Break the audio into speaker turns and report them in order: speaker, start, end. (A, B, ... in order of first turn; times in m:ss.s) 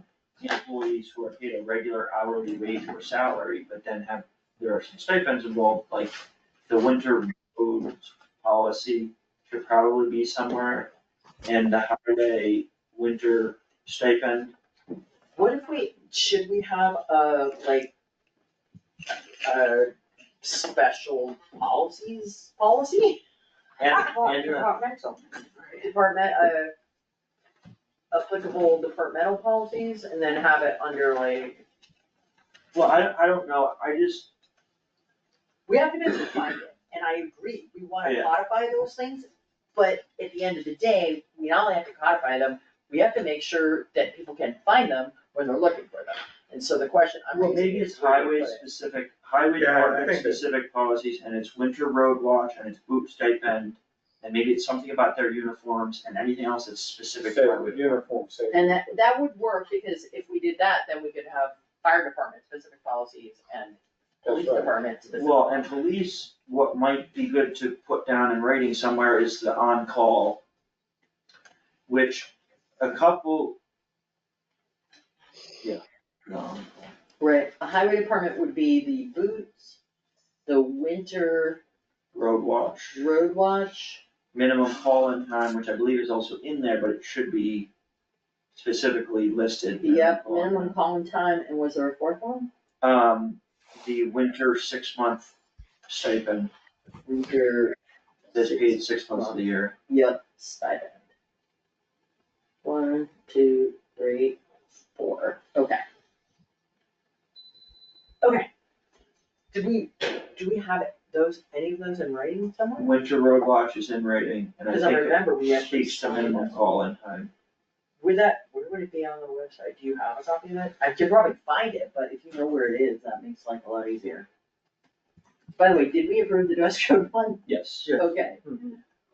0:00.4-0:06.2 A
0:06.7-0:10.9 A
0:11.4-0:14.5 A
0:15.3-0:17.9 B
0:19.1-0:23.2 B
0:23.8-0:26.7 B
0:23.8-0:24.7 A
0:28.1-0:31.6 B
0:32.7-0:34.3 A
0:35.7-0:48.6 B
0:38.0-0:38.3 A
0:47.3-0:58.0 A
0:49.6-0:50.4 C
0:57.2-0:59.0 C
0:58.5-1:05.7 B
1:04.2-1:04.7 C
1:05.1-1:10.4 A
1:11.9-1:13.6 A
1:15.6-1:16.7 A
1:17.2-1:19.8 B
1:20.4-1:21.6 B
1:22.1-1:23.0 A
1:22.9-1:24.0 B
1:24.3-1:27.7 A
1:28.5-1:30.7 A
1:29.8-1:32.5 B
1:32.8-1:35.3 A
1:35.9-1:36.5 A
1:37.0-1:37.8 B
1:38.3-1:41.0 B
1:38.3-1:39.7 A
1:42.6-1:44.4 B
1:44.9-1:45.8 B
1:48.2-1:48.5 B
1:49.5-1:52.9 B
1:52.8-1:57.3 A
1:54.7-1:56.5 B
1:58.0-2:04.3 B
2:05.6-2:08.5 B
2:07.4-2:08.1 A